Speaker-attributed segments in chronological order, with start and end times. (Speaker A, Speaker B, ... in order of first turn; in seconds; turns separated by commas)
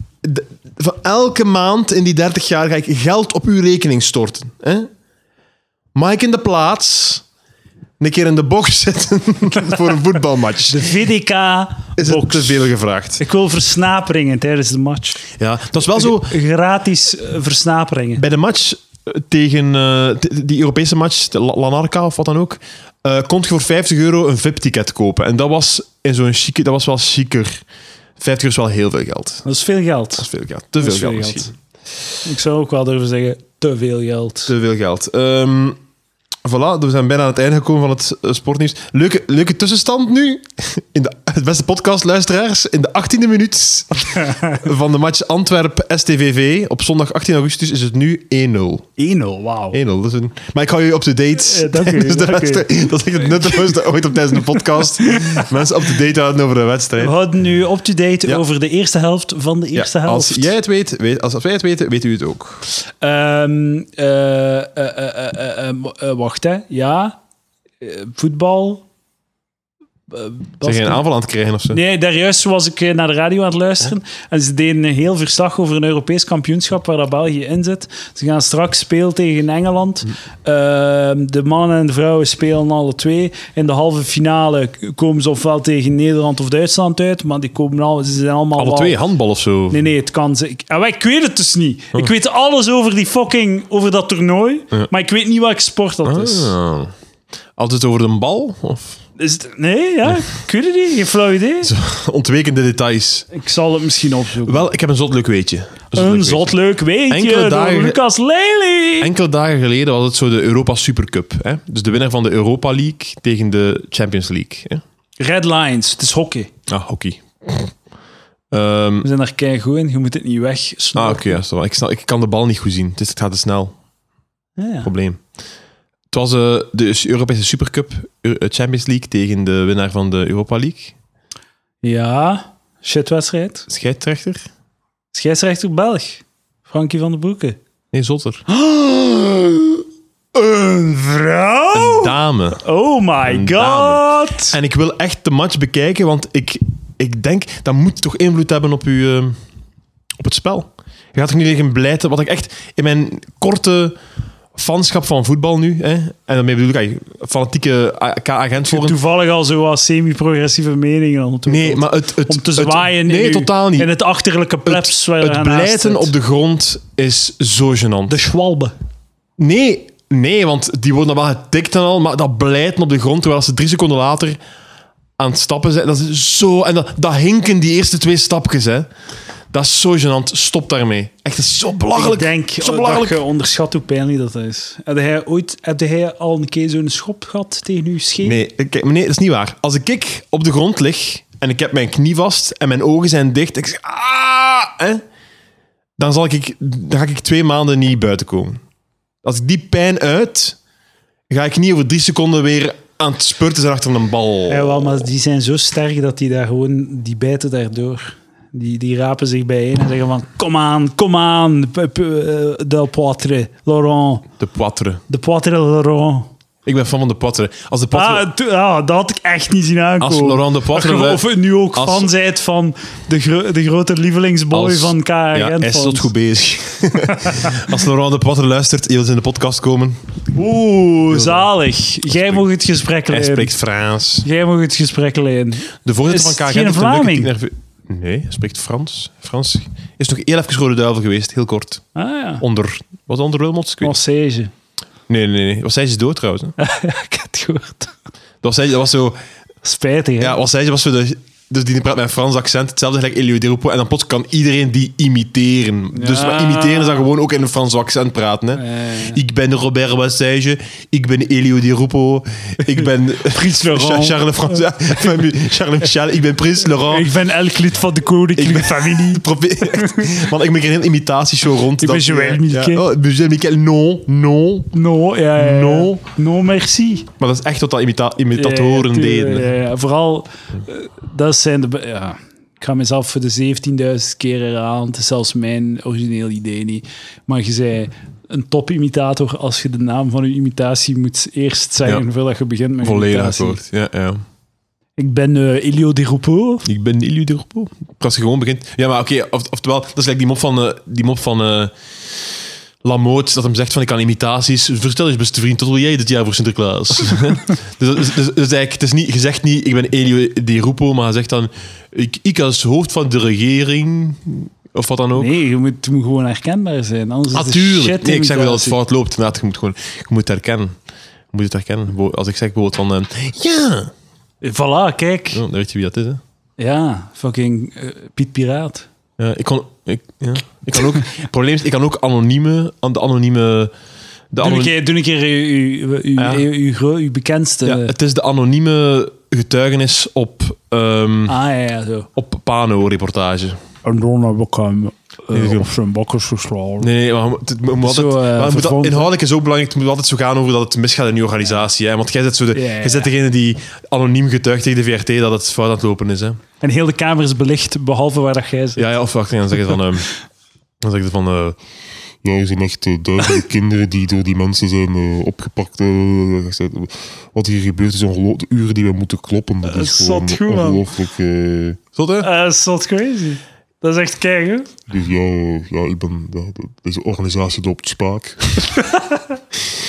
Speaker A: 0.2-4.9, Speaker A: 6.0-7.2, Speaker A: 8.0-10.9, Speaker B: 10.7-15.3, Speaker A: 12.0-13.2, Speaker A: 15.4-16.4, Speaker B: 15.9-18.2, Speaker A: 18.2-27.6, Speaker A: 28.2-29.4, Speaker B: 29.4-30.3, Speaker A: 30.2-31.5, Speaker B: 30.8-31.5, Speaker B: 32.2-34.5, Speaker A: 34.5-35.8, Speaker A: 36.5-48.9, Speaker B: 49.0-49.8, Speaker A: 49.7-57.1, Speaker B: 51.4-53.8, Speaker B: 55.0-55.5, Speaker B: 57.0-60.5, Speaker A: 59.8-62.6, Speaker B: 62.7-67.2, Speaker B: 67.8-68.8, Speaker B: 70.1-71.0, Speaker A: 70.6-71.8, Speaker B: 71.7-89.0, Speaker A: 88.6-89.8, Speaker B: 89.7-96.5, Speaker A: 96.0-96.9, Speaker A: 97.6-99.0, Speaker B: 99.2-101.7, Speaker A: 101.6-103.3, Speaker B: 103.3-104.7, Speaker A: 104.5-106.5, Speaker B: 105.9-109.1, Speaker A: 107.1-108.0, Speaker A: 109.0-114.8, Speaker B: 115.2-116.5, Speaker A: 116.7-117.7, Speaker A: 118.5-119.1, Speaker B: 119.0-121.4, Speaker A: 121.0-123.7, Speaker B: 124.6-124.9, Speaker A: 124.8-125.2, Speaker A: 126.1-130.9, Speaker B: 131.8-133.7, Speaker A: 133.7-134.5, Speaker B: 135.1-137.6, Speaker A: 137.9-138.4, Speaker B: 138.5-139.8, Speaker B: 140.3-144.6, Speaker A: 141.7-142.6, Speaker A: 143.2-149.4, Speaker A: 150.2-154.0, Speaker A: 154.6-159.0, Speaker B: 158.7-166.1, Speaker A: 161.5-163.9, Speaker A: 164.7-168.2, Speaker B: 168.1-168.7, Speaker A: 169.4-174.4, Speaker A: 175.2-178.9, Speaker A: 179.5-183.2, Speaker B: 181.9-188.4, Speaker A: 188.2-195.0, Speaker A: 196.0-198.6, Speaker A: 199.2-200.6, Speaker A: 201.3-205.1, Speaker B: 204.5-214.3, Speaker A: 214.4-215.0, Speaker B: 215.1-216.3, Speaker A: 216.7-218.3, Speaker B: 217.9-226.1, Speaker A: 220.0-222.1, Speaker A: 224.5-230.0, Speaker B: 227.1-227.6, Speaker B: 230.3-233.5, Speaker A: 231.1-231.5, Speaker A: 232.1-232.4, Speaker A: 233.1-234.3, Speaker B: 234.2-237.3, Speaker A: 235.8-241.8, Speaker B: 241.9-242.4, Speaker A: 242.4-244.0, Speaker B: 243.8-244.5, Speaker A: 245.1-246.6, Speaker B: 246.6-247.9, Speaker A: 248.4-249.2, Speaker B: 249.6-250.4, Speaker A: 250.2-267.1, Speaker B: 255.9-257.1, Speaker B: 258.6-259.2, Speaker B: 262.8-264.6, Speaker B: 266.9-270.2, Speaker A: 268.4-274.7, Speaker B: 271.8-272.8, Speaker B: 274.7-277.1, Speaker A: 275.4-276.0, Speaker A: 277.2-279.5, Speaker B: 278.4-293.6, Speaker A: 292.8-294.2, Speaker B: 295.0-296.7, Speaker A: 296.7-302.3, Speaker A: 302.8-315.3, Speaker B: 315.1-318.8, Speaker A: 317.3-320.8, Speaker A: 321.3-323.9, Speaker B: 324.4-325.4, Speaker A: 325.3-326.2, Speaker B: 326.6-328.9, Speaker A: 329.2-333.7, Speaker A: 334.3-334.7, Speaker B: 334.4-337.9, Speaker A: 336.2-336.4, Speaker A: 337.6-341.4, Speaker B: 341.3-342.1, Speaker A: 342.2-343.6, Speaker B: 343.9-346.9, Speaker A: 345.3-345.7, Speaker A: 346.8-356.4, Speaker B: 347.8-349.1, Speaker B: 352.5-353.1, Speaker B: 356.6-358.8, Speaker A: 358.8-360.1, Speaker A: 360.8-361.6, Speaker C: 362.2-371.8, Speaker B: 369.6-370.9, Speaker A: 372.0-372.3, Speaker B: 372.2-374.8, Speaker C: 374.9-378.9